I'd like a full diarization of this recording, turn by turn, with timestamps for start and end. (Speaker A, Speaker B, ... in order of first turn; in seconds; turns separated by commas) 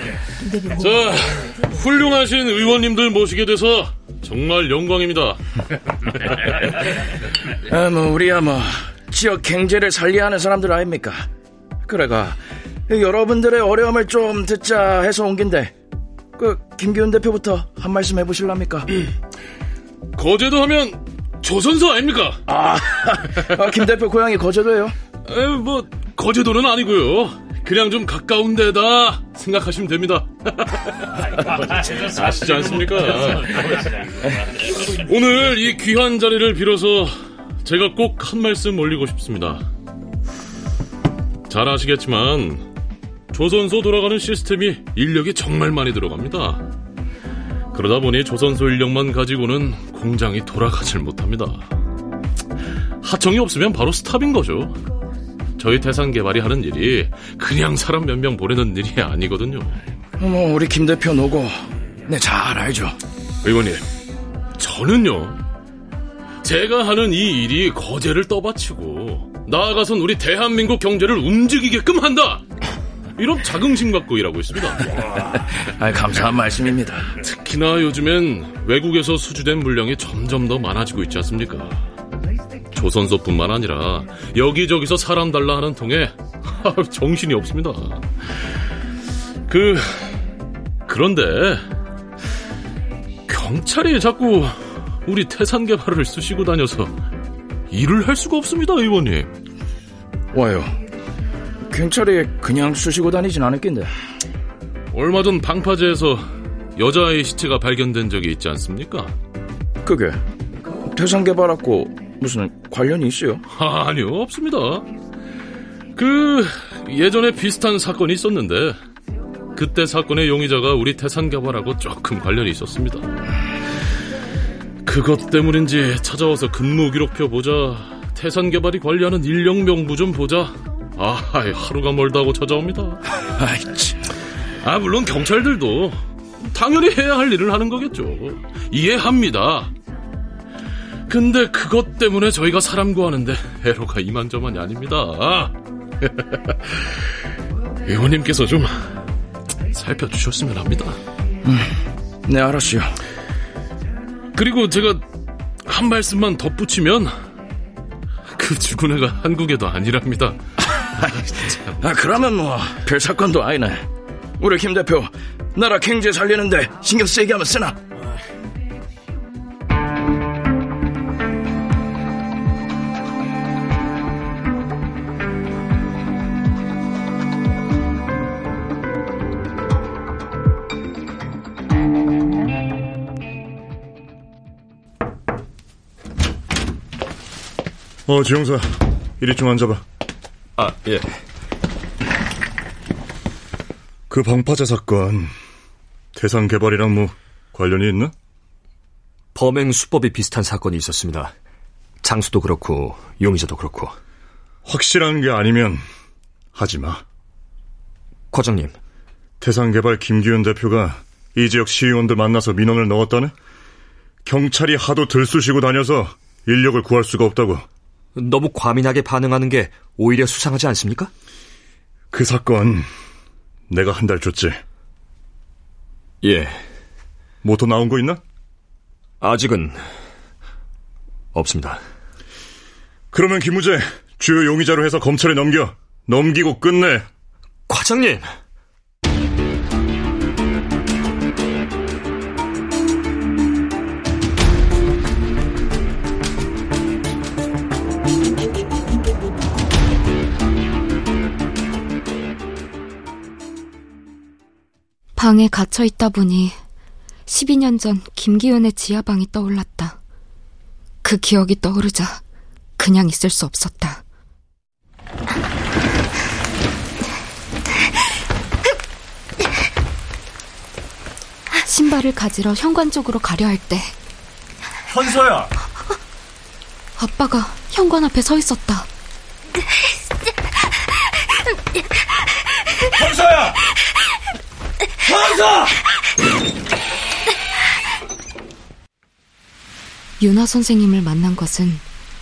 Speaker A: 0.6-5.4, Speaker B: 7.7-11.3, Speaker B: 11.9-15.7, Speaker B: 16.4-18.9, Speaker A: 20.2-22.4, Speaker B: 22.5-24.9, Speaker A: 25.3-39.6, Speaker A: 41.5-42.7, Speaker A: 43.3-46.6, Speaker A: 47.7-51.7, Speaker A: 53.0-54.8, Speaker A: 55.6-59.8, Speaker B: 60.2-61.5, Speaker B: 62.1-63.0, Speaker A: 63.4-63.8, Speaker A: 64.6-65.4, Speaker A: 66.4-72.4, Speaker A: 73.2-74.9, Speaker B: 75.7-77.0, Speaker A: 77.2-81.8, Speaker A: 82.7-88.1, Speaker A: 89.5-90.2, Speaker A: 90.9-91.7, Speaker A: 93.3-96.9, Speaker A: 97.7-99.3, Speaker B: 100.3-100.7, Speaker B: 101.7-103.9, Speaker A: 104.9-106.2, Speaker A: 106.8-109.1, Speaker B: 109.8-110.2, Speaker B: 110.9-113.4, Speaker A: 113.5-114.9, Speaker A: 116.0-118.8, Speaker A: 119.5-123.0, Speaker A: 124.8-133.0, Speaker B: 133.4-134.0, Speaker A: 134.6-136.0, Speaker A: 136.5-139.7, Speaker A: 141.1-147.1, Speaker A: 147.9-149.0, Speaker A: 149.8-151.0, Speaker B: 151.4-151.7, Speaker B: 152.3-152.9, Speaker A: 154.3-155.0, Speaker A: 155.7-157.1, Speaker A: 158.3-160.4, Speaker A: 161.0-161.5, Speaker B: 161.8-163.8, Speaker B: 164.4-167.8, Speaker C: 188.1-188.7, Speaker C: 189.2-189.8, Speaker D: 190.6-191.2, Speaker C: 194.1-195.3, Speaker C: 196.2-198.1, Speaker D: 199.3-201.3, Speaker D: 202.0-204.0, Speaker C: 204.7-205.8, Speaker C: 206.6-207.0, Speaker D: 208.3-208.8, Speaker C: 209.4-213.3, Speaker C: 214.2-217.6, Speaker D: 218.2-221.1, Speaker C: 222.1-222.9, Speaker C: 223.7-224.6, Speaker D: 226.2-226.6, Speaker C: 227.4-228.2, Speaker D: 229.2-229.8, Speaker D: 231.3-231.8, Speaker C: 233.1-237.0, Speaker D: 237.7-238.3, Speaker E: 255.2-256.6, Speaker E: 257.3-260.0, Speaker E: 261.0-262.2, Speaker E: 262.8-264.0, Speaker E: 271.5-273.9, Speaker E: 277.0-278.9, Speaker E: 290.2-291.8